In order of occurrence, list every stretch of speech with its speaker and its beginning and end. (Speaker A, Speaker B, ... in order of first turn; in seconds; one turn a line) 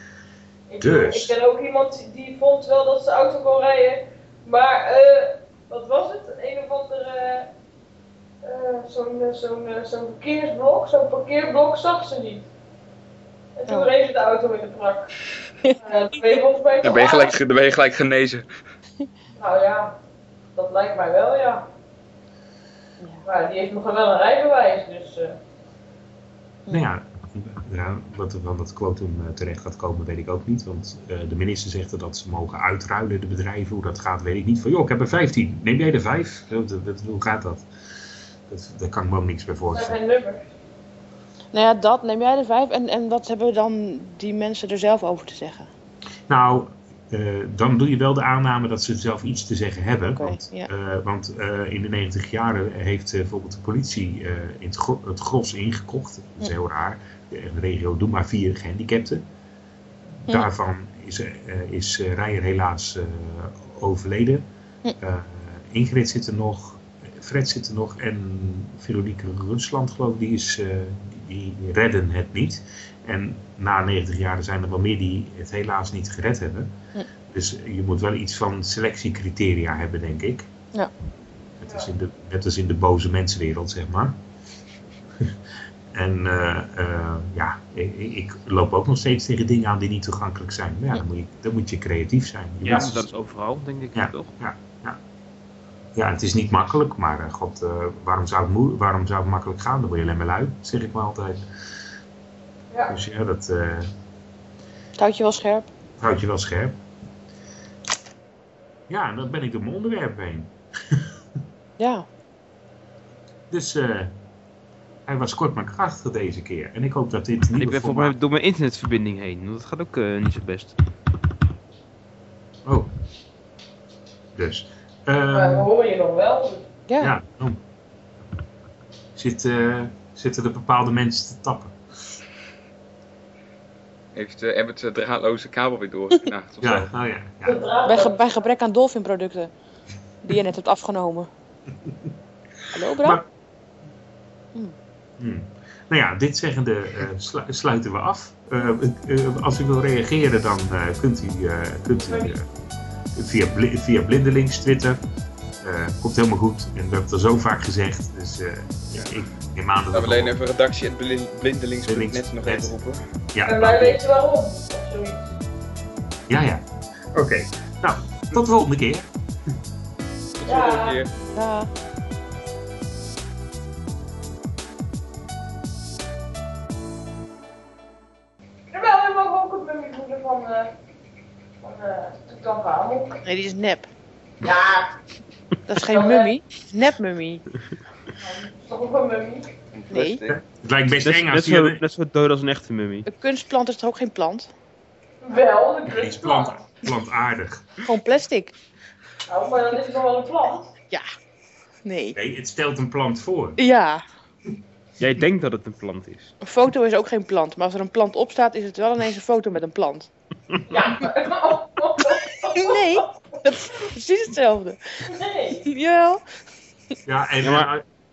Speaker A: 0.7-7.5
Speaker B: 0.8-1.3
Speaker A: 8.4-12.5
Speaker A: 13.6-15.1
Speaker C: 15.6-16.4
Speaker A: 15.7-17.3
Speaker D: 16.8-18.5
Speaker A: 19.4-20.0
Speaker A: 20.6-21.7
Speaker A: 23.2-25.4
Speaker B: 26.7-37.7
Speaker B: 38.5-40.0
Speaker A: 39.7-40.4
Speaker C: 41.5-45.7
Speaker B: 46.3-59.2
Speaker C: 50.1-50.7
Speaker B: 60.3-64.4
Speaker B: 65.0-76.7
Speaker B: 77.3-80.5
Speaker B: 81.6-84.2
Speaker A: 81.6-81.9
Speaker B: 85.9-93.1
Speaker E: 92.6-94.4
Speaker B: 94.0-95.0
Speaker B: 96.0-101.4
Speaker A: 102.7-103.0
Speaker B: 102.9-103.9
Speaker C: 105.0-105.7
Speaker B: 106.0-106.8
Speaker B: 108.9-111.0
Speaker C: 111.8-112.1
Speaker B: 113.5-114.1
Speaker B: 115.1-118.2
Speaker E: 117.6-120.8
Speaker B: 124.3-125.7
Speaker A: 125.3-126.7
Speaker C: 126.9-127.2
Speaker B: 127.0-127.6
Speaker B: 129.2-131.8
Speaker D: 134.1-136.9
Speaker B: 136.6-137.6
Speaker A: 137.4-138.4
Speaker C: 137.8-139.5
Speaker C: 140.2-141.3
Speaker C: 142.7-143.2
Speaker B: 143.0-143.3
Speaker B: 145.2-152.4
Speaker A: 152.0-152.4
Speaker B: 153.2-155.0
Speaker B: 155.6-160.3
Speaker D: 159.9-163.0
Speaker B: 161.9-162.7
Speaker B: 163.3-164.0
Speaker A: 163.4-165.3
Speaker B: 166.3-166.6
Speaker B: 167.1-169.1
Speaker D: 170.4-171.1
Speaker A: 170.4-171.0
Speaker C: 171.3-171.7
Speaker A: 178.7-180.7
Speaker A: 181.6-183.2
Speaker C: 183.2-183.9
Speaker A: 184.4-184.9
Speaker C: 185.7-187.4
Speaker A: 185.8-186.3
Speaker A: 188.2-189.5
Speaker D: 189.7-190.4
Speaker C: 189.9-190.2
Speaker B: 190.3-191.8
Speaker E: 191.0-193.1
Speaker C: 193.1-194.5
Speaker A: 195.2-196.6
Speaker B: 195.9-197.7
Speaker C: 197.8-198.5
Speaker A: 199.3-200.7
Speaker C: 201.8-202.2
Speaker B: 202.2-203.6
Speaker C: 203.6-204.0
Speaker E: 205.0-206.3
Speaker C: 206.4-210.1
Speaker A: 210.7-213.4
Speaker C: 212.5-215.0
Speaker A: 215.1-215.7
Speaker C: 215.7-216.2
Speaker B: 217.1-217.8
Speaker E: 217.4-217.7